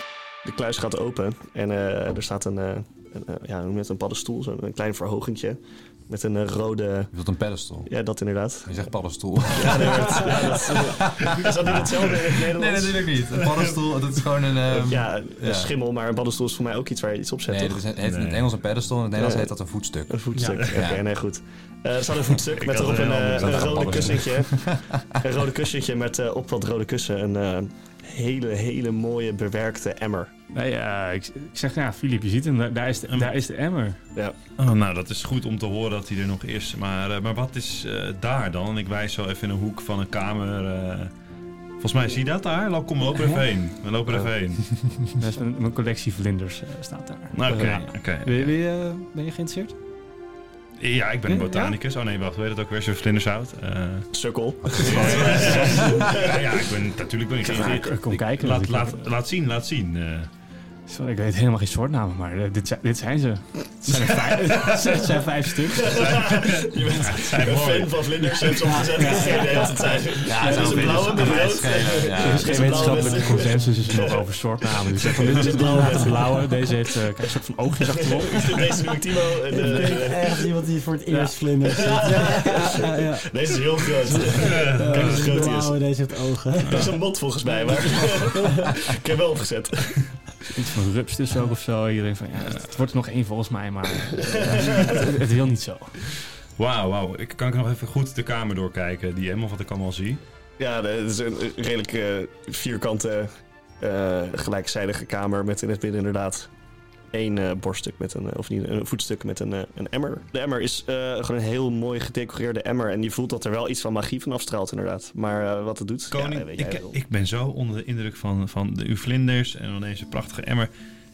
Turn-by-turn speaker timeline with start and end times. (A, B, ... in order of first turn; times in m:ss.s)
0:00.4-0:07.1 A
0:07.1-0:07.9 B
0:07.9-0:08.7 A
0:08.6-0:15.7 B
0:09.5-0:13.7 A
0:14.6-0:17.8 A
0:17.5-0:21.0 B
0:18.0-0:18.5 C
0:19.2-0:19.5 A
0:20.1-0:30.3 A
0:20.4-0:20.6 D
0:20.4-0:20.8 C
0:22.4-0:24.4 C
0:23.1-0:25.2 B
0:30.5-0:34.0 D
0:34.6-0:41.1 C
0:41.8-0:44.6 C
0:43.2-0:43.4 D
0:45.1-0:49.7 D
0:47.3-0:48.5 C
0:50.8-0:54.1 C
0:51.3-0:51.7 D
0:54.1-0:56.7 A
0:54.7-1:00.3 C
0:54.8-0:56.0 D
0:57.4-0:58.0 A
0:57.5-0:59.1 D
1:00.9-1:06.0 D
1:04.1-1:04.6 C
1:05.7-1:16.5 A
1:05.8-1:08.5 C
1:08.7-1:10.1 E
1:08.9-1:19.0 D
1:10.2-1:13.0 B
1:12.5-1:13.5 E
1:15.4-1:16.1 E
1:17.8-1:20.5 A
1:19.5-1:26.9 E
1:21.1-1:22.1 D
1:21.8-1:25.8 A
1:24.1-1:25.4 D
1:24.4-1:25.2 C
1:26.6-1:26.9 C
1:26.7-1:30.1 A
1:28.0-1:28.7 E
1:30.5-1:36.0 D
1:34.3-1:35.1 A
1:36.6-1:40.2 C
1:40.6-1:46.5 A
1:47.1-1:57.0 A
1:56.1-2:00.7 C